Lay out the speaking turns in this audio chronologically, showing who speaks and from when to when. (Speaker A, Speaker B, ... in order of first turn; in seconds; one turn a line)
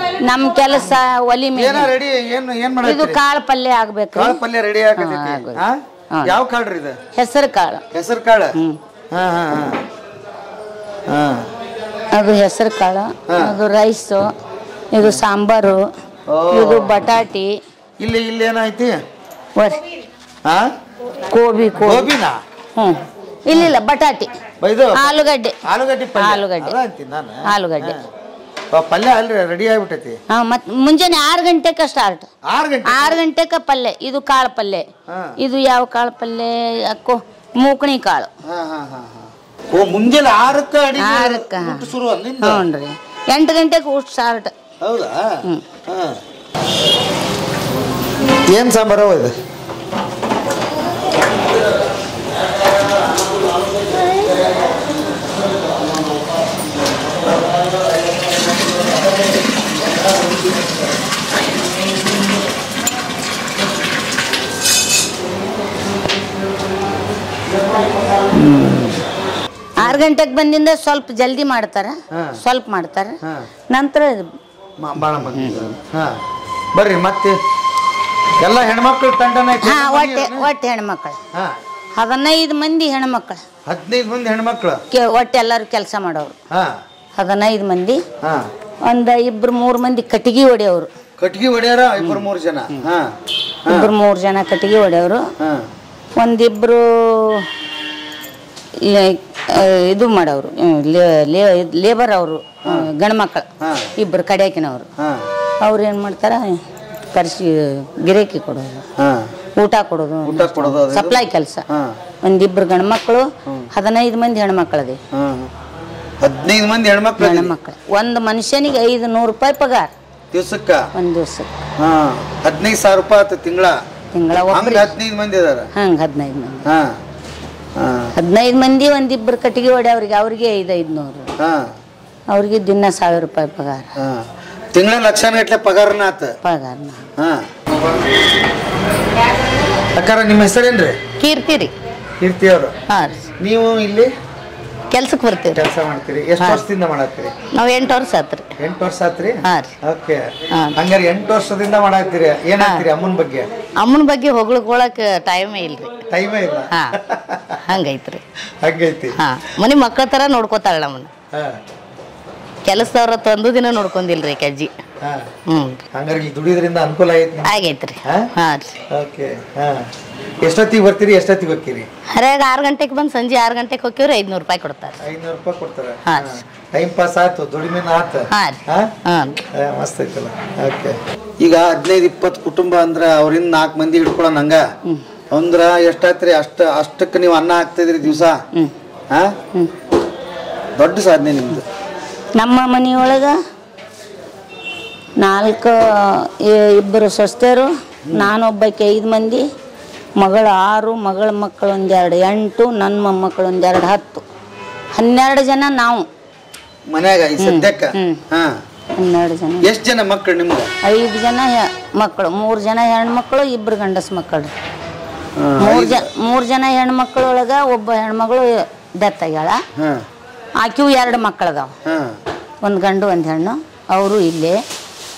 Speaker A: 0.2-1.9
Speaker B: 1.6-3.2
Speaker A: 2.9-4.4
Speaker B: 4.1-7.0
Speaker A: 5.0-6.3
Speaker A: 7.2-7.8
Speaker B: 7.9-8.6
Speaker B: 9.1-9.8
Speaker B: 11.1-11.5
Speaker A: 12.1-14.3
Speaker B: 13.3-13.6
Speaker A: 14.9-15.8
Speaker B: 16.3-17.0
Speaker A: 16.5-17.6
Speaker B: 18.0-18.9
Speaker A: 19.6-19.8
Speaker B: 20.4-20.7
Speaker A: 21.3-22.1
Speaker B: 21.8-22.4
Speaker A: 22.8-24.3
Speaker B: 24.6-28.1
Speaker A: 25.0-25.6
Speaker A: 26.2-26.8
Speaker A: 27.5-28.0
Speaker B: 28.7-30.2
Speaker A: 30.3-32.3
Speaker B: 32.5-33.2
Speaker A: 32.9-34.9
Speaker B: 35.1-35.4
Speaker A: 35.4-38.3
Speaker B: 38.4-42.7
Speaker A: 41.0-41.9
Speaker A: 42.4-44.5
Speaker B: 44.8-46.2
Speaker B: 48.5-49.4
Speaker B: 68.5-68.8
Speaker A: 69.8-73.2
Speaker B: 72.1-72.4
Speaker A: 73.7-74.3
Speaker B: 74.8-76.2
Speaker A: 75.3-75.7
Speaker B: 76.8-77.4
Speaker B: 78.4-80.5
Speaker A: 79.6-81.2
Speaker B: 81.3-81.6
Speaker A: 82.0-83.4
Speaker B: 83.7-84.8
Speaker A: 84.9-86.3
Speaker B: 86.5-86.8
Speaker A: 87.2-88.0
Speaker B: 88.2-88.5
Speaker A: 88.8-90.9
Speaker B: 91.2-93.2
Speaker B: 93.7-93.9
Speaker A: 93.7-95.3
Speaker B: 95.4-95.7
Speaker A: 96.2-97.5
Speaker A: 98.8-103.5
Speaker B: 103.6-103.9
Speaker A: 104.0-104.9
Speaker B: 105.0-105.3
Speaker A: 105.6-106.6
Speaker A: 107.1-108.8
Speaker B: 109.0-109.3
Speaker A: 109.6-111.7
Speaker B: 110.2-112.0
Speaker A: 112.2-115.0
Speaker B: 115.1-115.5
Speaker B: 116.2-117.5
Speaker A: 117.2-119.9
Speaker B: 120.3-120.9
Speaker A: 121.0-121.6
Speaker B: 121.8-123.8
Speaker A: 124.1-124.9
Speaker B: 124.5-125.7
Speaker A: 125.8-126.7
Speaker B: 126.7-127.0
Speaker B: 127.8-128.1
Speaker A: 128.2-131.3
Speaker B: 131.4-131.7
Speaker A: 132.3-133.9
Speaker B: 134.0-136.3
Speaker A: 136.4-137.0
Speaker B: 137.2-137.5
Speaker B: 139.9-141.0
Speaker C: 141.2-141.7
Speaker B: 142.2-142.8
Speaker C: 142.9-143.3
Speaker B: 143.4-144.1
Speaker C: 144.9-145.6
Speaker B: 145.5-147.3
Speaker C: 146.4-146.7
Speaker C: 147.6-148.5
Speaker B: 148.6-153.5
Speaker C: 149.4-149.7
Speaker C: 150.5-150.8
Speaker C: 152.6-152.9
Speaker C: 153.8-156.1
Speaker B: 156.1-157.6
Speaker C: 156.7-157.0
Speaker C: 157.7-158.2
Speaker B: 158.6-159.2
Speaker C: 159.2-161.1
Speaker B: 161.3-161.6
Speaker C: 162.7-164.7
Speaker B: 165.0-165.3
Speaker C: 165.5-165.8
Speaker B: 165.9-167.5
Speaker C: 167.4-168.8
Speaker B: 168.9-169.9
Speaker B: 170.4-171.9
Speaker C: 172.1-175.0
Speaker B: 175.0-178.9
Speaker C: 176.1-176.4
Speaker C: 178.3-179.4
Speaker B: 179.5-184.6
Speaker B: 185.3-188.4
Speaker B: 190.8-191.7
Speaker A: 192.4-193.4
Speaker A: 195.2-199.4
Speaker B: 198.1-198.3
Speaker A: 200.2-204.2
Speaker A: 204.9-206.1
Speaker B: 206.9-208.6
Speaker A: 207.4-208.2
Speaker A: 208.9-209.7
Speaker B: 209.6-210.7
Speaker A: 210.8-214.5
Speaker B: 215.4-216.1
Speaker A: 215.6-219.6
Speaker B: 219.8-220.0
Speaker A: 220.6-221.7
Speaker B: 221.8-222.2
Speaker A: 222.6-224.6